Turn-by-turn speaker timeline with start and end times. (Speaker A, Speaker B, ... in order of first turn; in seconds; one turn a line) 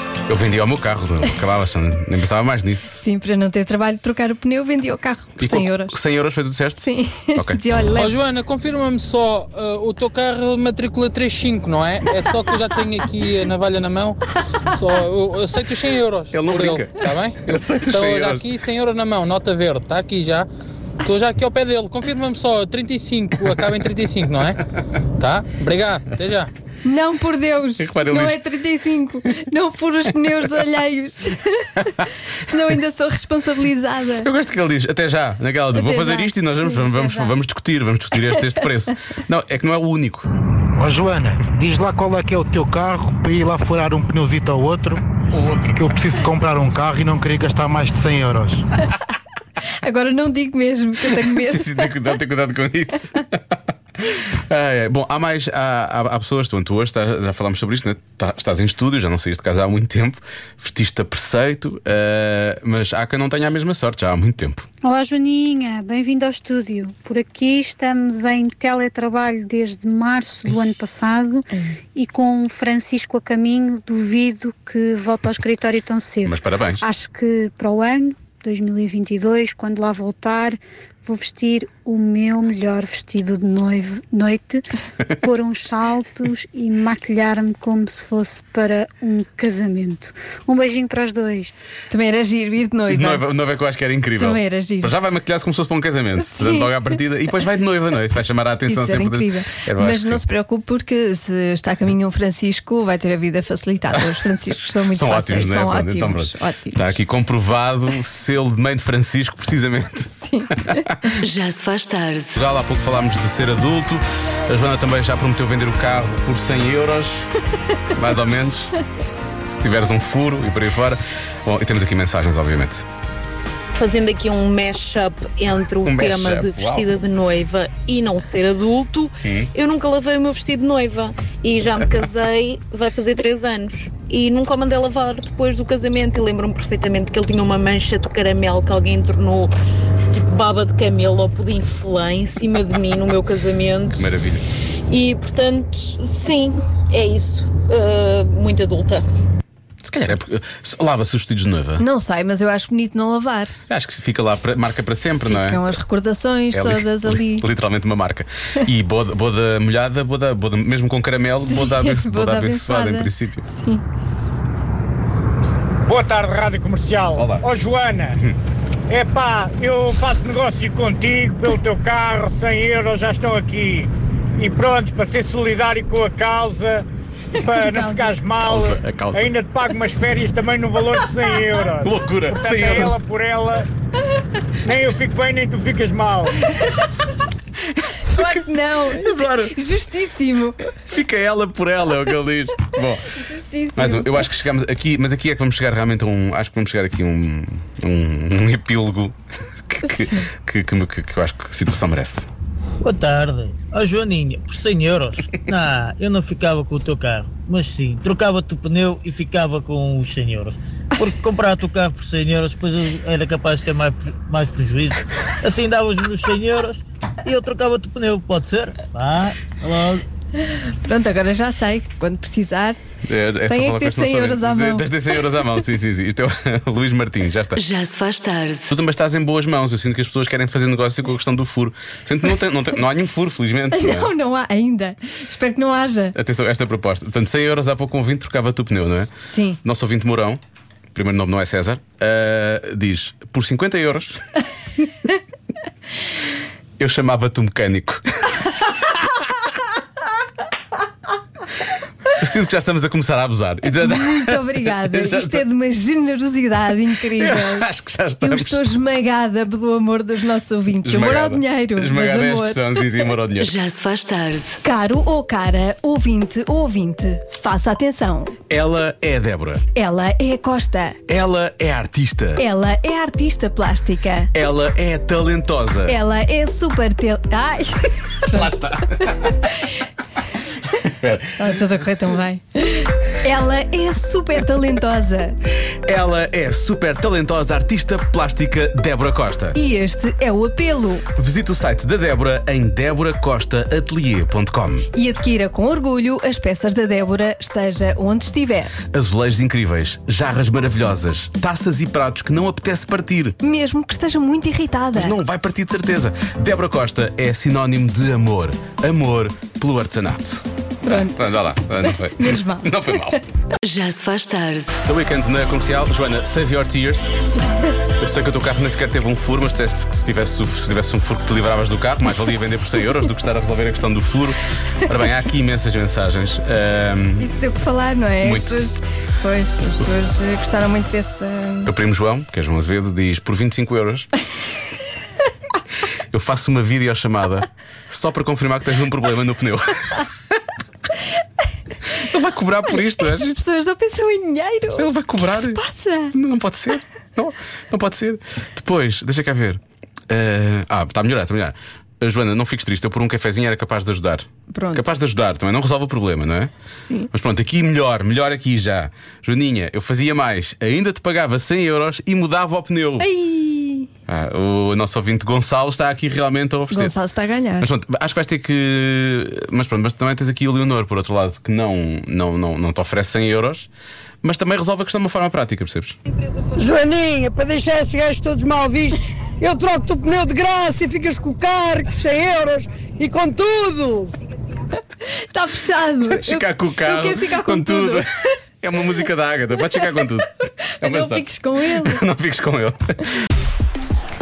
Speaker A: 0.3-3.0
Speaker B: 3.0-6.0
Speaker A: 5.4-7.6
Speaker B: 6.8-8.2
Speaker C: 7.9-20.5
Speaker A: 16.3-18.5
Speaker C: 21.0-24.6
Speaker C: 25.2-26.5
Speaker B: 26.9-34.3
Speaker A: 27.8-28.4
Speaker A: 34.2-40.3
Speaker B: 35.7-37.4
Speaker D: 40.7-45.0
Speaker A: 45.3-45.9
Speaker D: 45.8-48.7
Speaker B: 49.8-51.7
Speaker A: 51.2-64.7
Speaker E: 64.8-91.5
Speaker A: 76.2-76.8
Speaker B: 91.9-93.2
Speaker A: 92.9-100.2
Speaker B: 94.2-94.9
Speaker B: 96.3-96.8
Speaker B: 98.7-106.9
Speaker A: 103.9-104.2
Speaker A: 104.9-110.1
Speaker B: 110.2-110.9
Speaker A: 110.7-111.0
Speaker F: 111.2-112.3
Speaker A: 112.3-117.3
Speaker A: 117.9-122.9
Speaker G: 123.7-139.5
Speaker A: 125.8-126.9
Speaker A: 129.2-129.5
Speaker G: 140.1-144.1
Speaker A: 143.9-144.4
Speaker G: 144.9-149.0
Speaker A: 149.8-151.8
Speaker B: 151.8-153.6
Speaker A: 153.7-155.7
Speaker B: 155.3-157.4
Speaker A: 156.5-163.5
Speaker B: 161.4-163.8
Speaker H: 165.9-168.2
Speaker A: 167.2-167.5
Speaker H: 168.9-176.9
Speaker B: 177.4-178.2
Speaker H: 177.4-183.7
Speaker A: 178.4-179.3
Speaker A: 181.8-183.0
Speaker H: 184.7-186.4
Speaker B: 188.1-190.7
Speaker A: 188.1-189.6
Speaker A: 190.8-193.1
Speaker B: 193.1-194.3
Speaker A: 193.8-199.2
Speaker A: 199.7-202.3
Speaker B: 199.8-200.3
Speaker I: 202.8-220.0
Speaker B: 220.5-222.8
Speaker A: 223.0-227.6
Speaker B: 223.5-224.9
Speaker F: 227.6-228.7
Speaker A: 228.7-234.1
Speaker B: 233.7-236.2
Speaker A: 236.2-239.1
Speaker B: 239.3-239.6
Speaker A: 239.6-240.4
Speaker A: 240.9-244.2
Speaker A: 246.8-248.3
Speaker A: 252.1-255.4
Speaker B: 253.8-257.7
Speaker A: 257.1-258.7
Speaker B: 258.2-262.8
Speaker A: 260.8-263.6
Speaker F: 263.4-264.6
Speaker B: 264.6-268.4
Speaker A: 268.5-269.6
Speaker B: 269.8-271.0
Speaker A: 271.1-272.4
Speaker B: 272.4-274.3
Speaker A: 274.3-276.0
Speaker B: 275.9-279.1
Speaker A: 278.3-279.5
Speaker A: 280.8-281.6
Speaker B: 281.4-285.4
Speaker A: 285.7-289.6
Speaker B: 289.6-291.1
Speaker A: 291.2-294.9
Speaker B: 294.9-298.8
Speaker A: 298.9-303.4
Speaker B: 303.4-305.1
Speaker A: 304.9-313.2
Speaker B: 310.8-311.2
Speaker B: 311.8-313.2
Speaker F: 313.6-314.8
Speaker A: 314.8-317.1
Speaker A: 317.9-327.4
Speaker B: 327.2-331.7
Speaker A: 328.2-328.6
Speaker A: 331.6-334.1
Speaker A: 336.1-340.0
Speaker A: 341.9-343.4
Speaker B: 342.7-346.1
Speaker A: 344.7-356.5
Speaker B: 354.5-354.9
Speaker A: 357.1-363.1
Speaker B: 363.0-363.9
Speaker A: 364.1-366.9
Speaker B: 366.7-367.7
Speaker A: 367.6-373.7
Speaker A: 374.2-376.0
Speaker J: 376.6-384.1
Speaker B: 385.2-388.1
Speaker A: 386.0-388.1
Speaker A: 388.6-393.0
Speaker B: 390.7-392.0